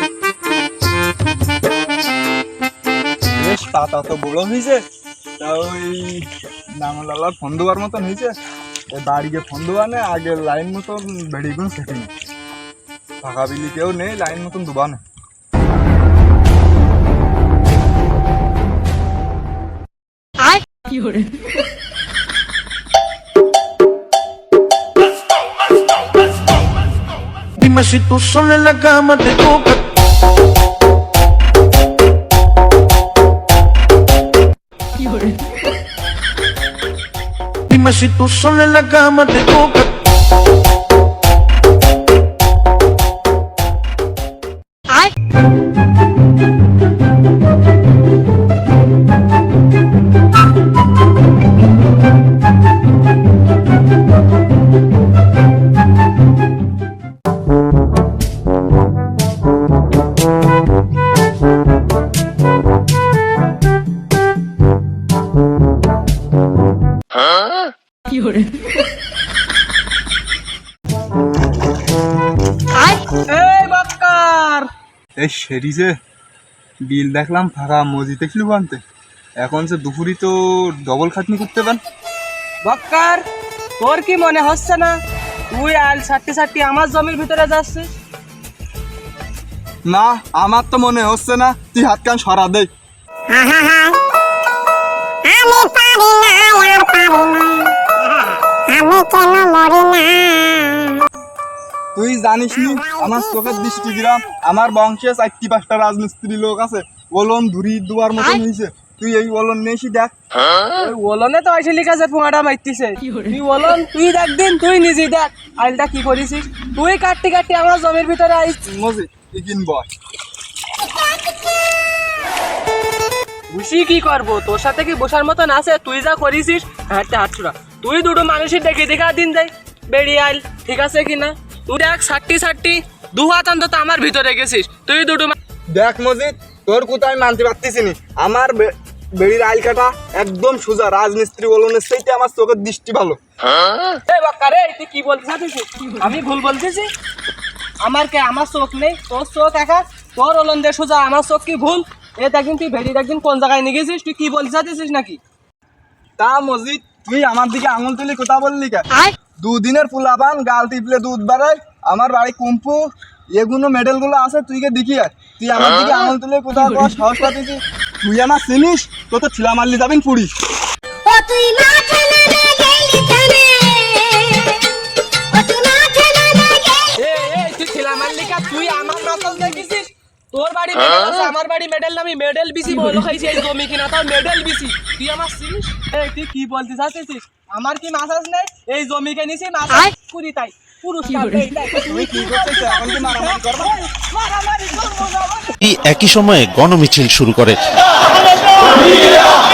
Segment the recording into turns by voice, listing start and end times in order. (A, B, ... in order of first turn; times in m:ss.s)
0:03.3-0:04.8 A
0:05.4-0:06.2 A
0:06.8-0:08.3 A
0:08.9-0:12.1 A
0:13.2-0:15.0 A
0:27.6-0:29.8 B
0:37.7-0:39.8 B
1:13.2-1:14.7 C
1:15.2-1:16.0 A
1:16.8-1:18.8 A
1:19.4-1:21.8 A
1:22.6-1:23.2 C
1:23.8-1:25.0 C
1:25.5-1:27.9 C
1:29.9-1:32.7 A
1:35.4-1:37.1 D
1:39.0-1:40.0 D
1:41.9-1:50.1 A
1:50.7-1:58.6 C
1:58.7-1:59.9 A
2:03.5-2:15.3 C
2:15.7-2:23.2 A
2:24.1-2:26.9 C
2:27.8-2:35.2 C
2:36.2-2:38.9 A
2:39.4-2:42.8 A
2:43.4-2:50.3 A
2:51.0-2:54.6 D
2:55.3-2:56.9 D
2:57.0-3:15.4 C
3:11.8-3:13.8 A
3:15.6-3:17.6 E